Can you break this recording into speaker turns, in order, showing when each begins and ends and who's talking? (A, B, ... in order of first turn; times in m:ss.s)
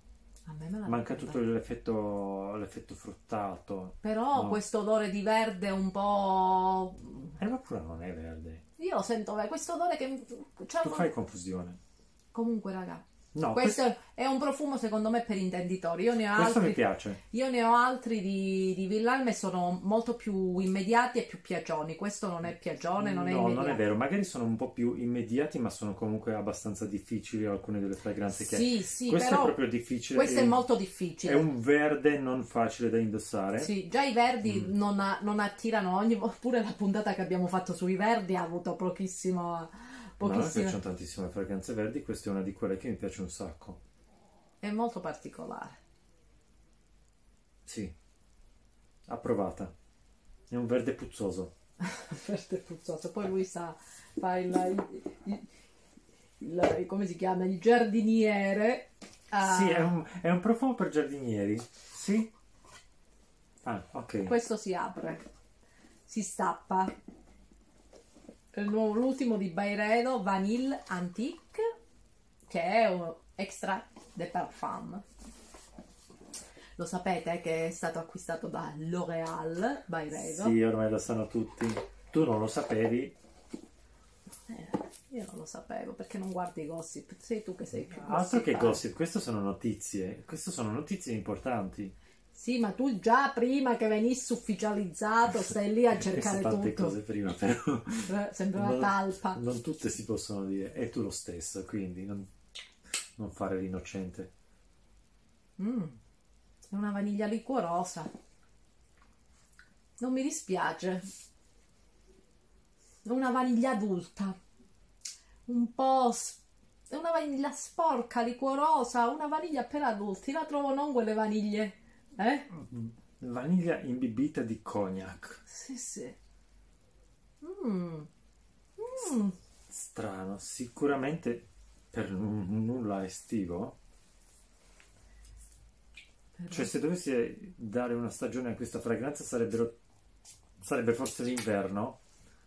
0:00.4-0:01.4 A
0:00.9-0:04.6 B
0:04.0-0:07.4 A
0:07.4-0:08.6 B
0:08.8-0:11.1 A
0:10.8-0:11.8 B
0:12.3-0:23.8 A
0:13.3-0:13.8 B
0:16.3-0:17.2 B
0:23.0-0:30.6 B
0:28.4-0:29.6 A
0:30.1-0:31.5 A
0:31.2-0:33.7 B
0:33.6-0:40.8 A
0:34.4-0:34.7 B
0:40.2-0:43.8 B
0:44.6-0:45.8 A
0:47.6-0:47.9 B
0:49.1-0:49.7 B
0:50.5-0:51.5 B
0:51.8-0:55.5 A
0:56.4-1:00.0 A
0:59.4-1:02.3 B
1:03.6-1:04.4 B
1:04.2-1:05.2 A
1:06.1-1:06.9 A
1:08.5-1:11.8 A
1:12.5-1:15.0 A
1:16.8-1:20.6 A
1:20.1-1:23.1 B
1:24.5-1:28.8 A
1:28.0-1:31.9 B
1:32.3-1:37.0 A
1:36.0-1:42.3 B
1:38.1-1:39.4 A
1:43.2-1:44.3 B
1:45.6-1:46.0 A
1:46.7-1:48.1 A
1:50.0-1:51.1 A
1:53.0-1:54.4 A
1:55.5-2:02.5 A
2:02.5-2:05.4 B
2:05.5-2:06.2 A
2:07.4-2:08.1 A
2:08.8-2:09.4 A
2:09.7-2:13.8 B
2:16.4-2:16.7 A
2:16.5-2:19.8 B
2:20.6-2:22.0 B